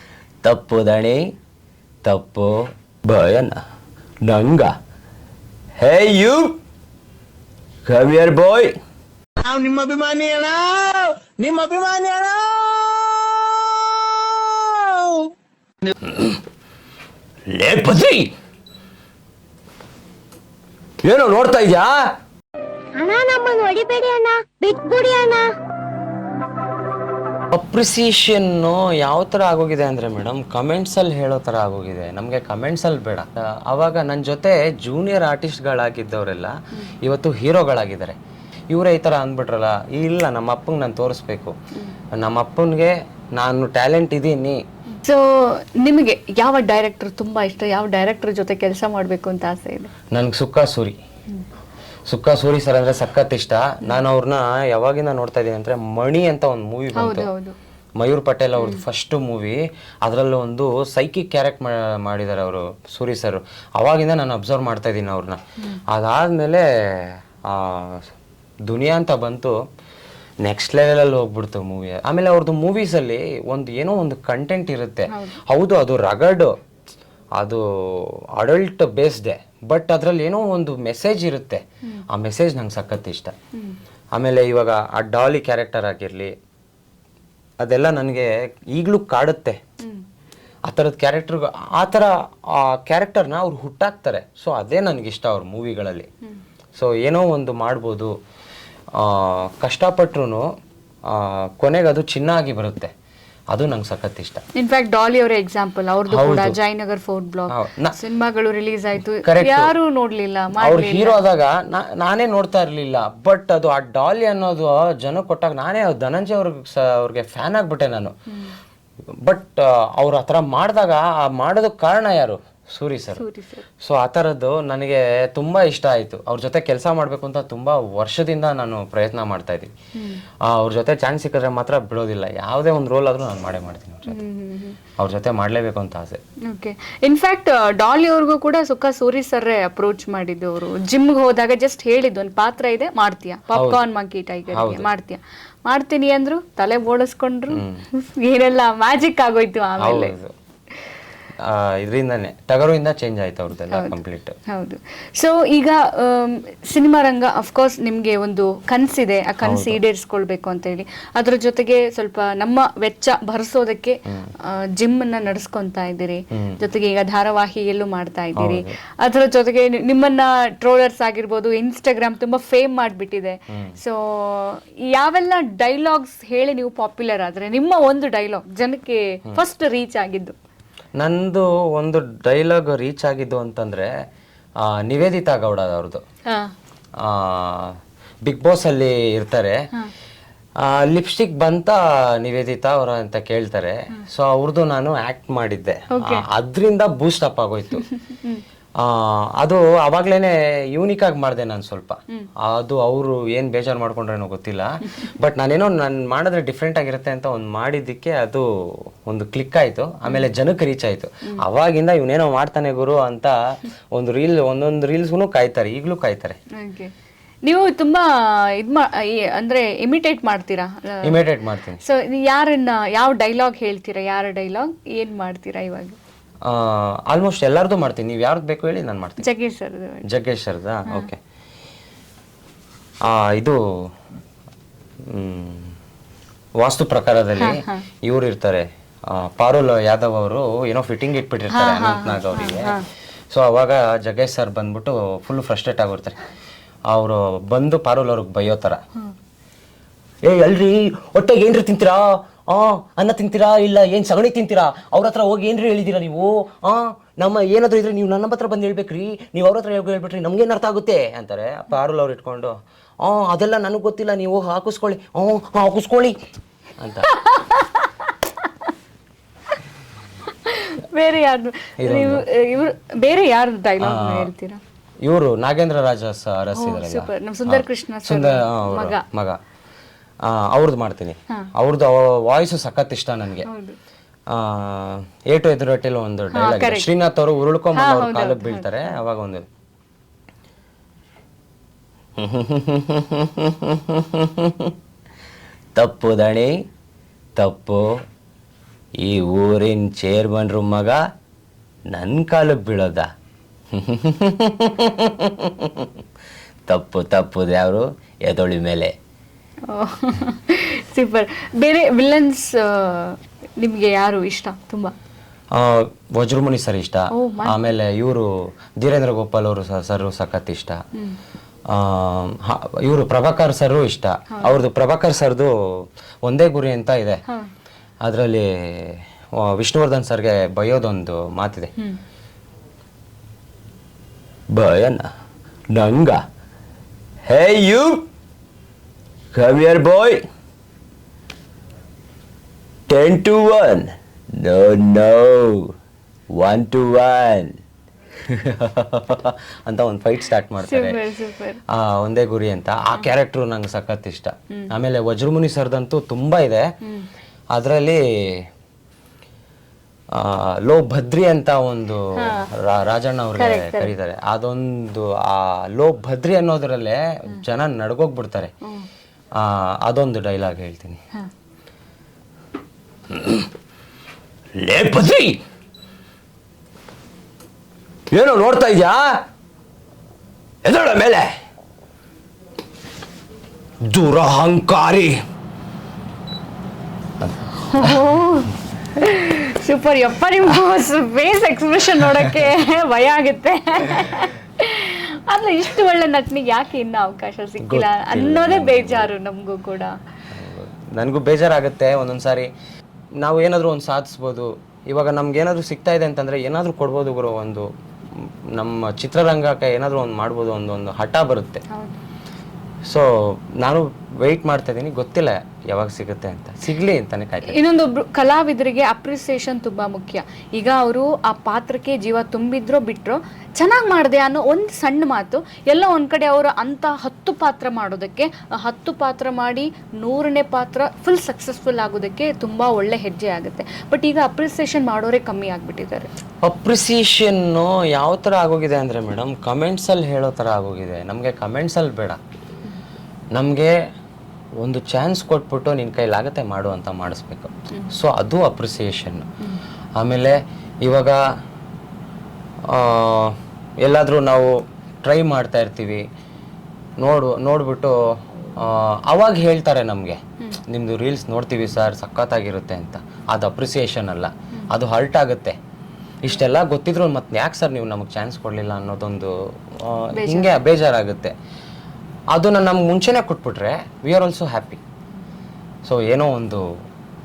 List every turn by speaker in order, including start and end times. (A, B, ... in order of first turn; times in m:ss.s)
0:00.4-0:01.3 A
0:02.0-0:03.6 A
0:04.2-0:04.7 A
0:05.8-0:06.6 A
0:07.8-0:08.8 A
0:09.4-0:15.3 B
0:17.5-0:18.3 A
0:21.0-0:22.0 A
0:22.9-0:25.5 C
0:27.5-0:38.2 A
0:38.7-0:41.5 A
0:42.1-0:44.6 A
0:45.0-0:49.9 D
0:50.1-0:51.0 A
0:52.1-0:57.3 A
0:56.9-0:57.6 D
0:58.0-1:08.1 A
0:58.6-0:58.8 D
1:08.7-1:09.6 A
1:10.4-1:16.5 A
1:15.1-1:15.4 D
1:17.4-1:23.3 A
1:23.5-1:23.8 D
1:24.1-1:26.3 A
1:27.6-1:29.6 A
1:29.8-1:30.0 D
1:30.7-1:36.1 A
1:36.8-1:38.1 A
1:38.9-1:40.4 A
1:41.0-1:42.9 A
1:43.5-1:44.4 A
1:44.6-1:51.2 D
1:46.1-1:46.6 A
1:47.5-1:48.0 A
1:49.2-1:49.7 A
1:50.6-1:58.1 A
1:59.2-2:03.2 A
2:03.2-2:03.6 D
2:03.8-2:09.7 A
2:10.0-2:10.2 D
2:10.4-2:14.2 A
2:14.0-2:14.8 D
2:15.0-2:16.2 A
2:16.5-2:30.1 D
2:23.5-2:23.8 A
2:24.5-2:24.9 A
2:27.5-2:27.8 A
2:29.8-2:30.3 A
2:31.4-2:34.4 A
2:33.7-3:00.4 D
2:39.4-2:39.8 A
2:46.3-2:46.6 A
2:48.4-2:48.7 A
2:53.5-2:53.8 A
3:01.0-3:03.9 A
3:04.6-3:06.0 A
3:06.2-3:06.5 D
3:07.0-3:09.6 A
3:10.6-3:17.9 A
3:15.9-3:16.2 D
3:17.8-3:18.4 D
3:18.8-3:33.4 A
3:33.9-3:36.4 A
3:36.6-3:36.9 D
3:37.4-3:41.2 D
3:41.0-3:41.8 A
3:41.8-3:46.0 D
3:46.4-3:49.3 A
3:49.2-3:50.0 D
3:50.0-3:51.2 A
3:53.0-3:53.6 A
3:55.1-3:55.7 A
3:56.6-4:02.8 A
3:57.4-3:57.8 D
4:01.5-4:02.8 D
4:03.3-4:06.2 A
4:06.9-4:08.8 A
4:10.2-4:26.2 A
4:26.8-4:27.1 A
4:27.1-4:28.7 D
4:30.3-4:34.6 D
4:31.8-4:32.2 A
4:33.8-4:34.3 A
4:35.0-4:39.4 A
4:36.5-4:39.0 D
4:40.2-4:43.5 A
4:43.4-4:43.8 D
4:44.3-4:49.4 A
4:46.3-4:46.9 D
4:47.7-4:48.9 D
4:52.2-4:54.6 A
4:55.8-4:56.5 A
4:57.4-4:57.9 A
4:59.0-5:01.0 A
5:01.9-5:03.1 A
5:03.7-5:05.9 A
5:06.7-5:08.9 A
5:09.7-5:14.9 D
5:15.5-5:20.8 A
5:17.1-5:17.6 D
5:21.7-5:27.2 A
5:28.0-5:31.7 A
5:34.5-5:35.1 A
5:35.7-5:36.2 A
5:37.2-5:38.0 A
5:39.3-5:40.2 A
5:42.9-5:45.7 A
5:46.3-5:47.5 A
5:48.2-5:51.0 A
5:50.6-5:51.6 D
5:51.7-5:56.6 A
5:56.8-5:57.1 D
5:57.5-5:58.5 A
6:00.1-6:08.5 A
6:02.2-6:02.5 D
6:03.4-6:03.9 D
6:08.6-6:08.9 D
6:09.4-6:11.0 A
6:13.1-6:13.4 A
6:14.6-6:15.4 A
6:18.1-6:19.2 A
6:20.6-6:21.3 A
6:23.8-6:25.2 A
6:27.2-6:28.0 A
6:27.5-6:39.9 D
6:37.6-6:39.1 A
6:40.3-6:42.5 A
6:43.2-6:51.6 A
6:51.7-6:52.0 D
6:52.8-6:57.6 A
6:57.4-7:16.1 D
7:16.4-7:22.2 A
7:23.3-7:23.7 A
7:24.6-7:29.3 A
7:30.0-7:31.2 A
7:32.7-7:36.0 A
7:37.0-7:38.0 A
7:38.6-7:45.6 A
7:46.2-7:51.3 A
7:50.1-7:50.6 D
7:52.3-7:54.8 A
7:55.8-7:56.7 A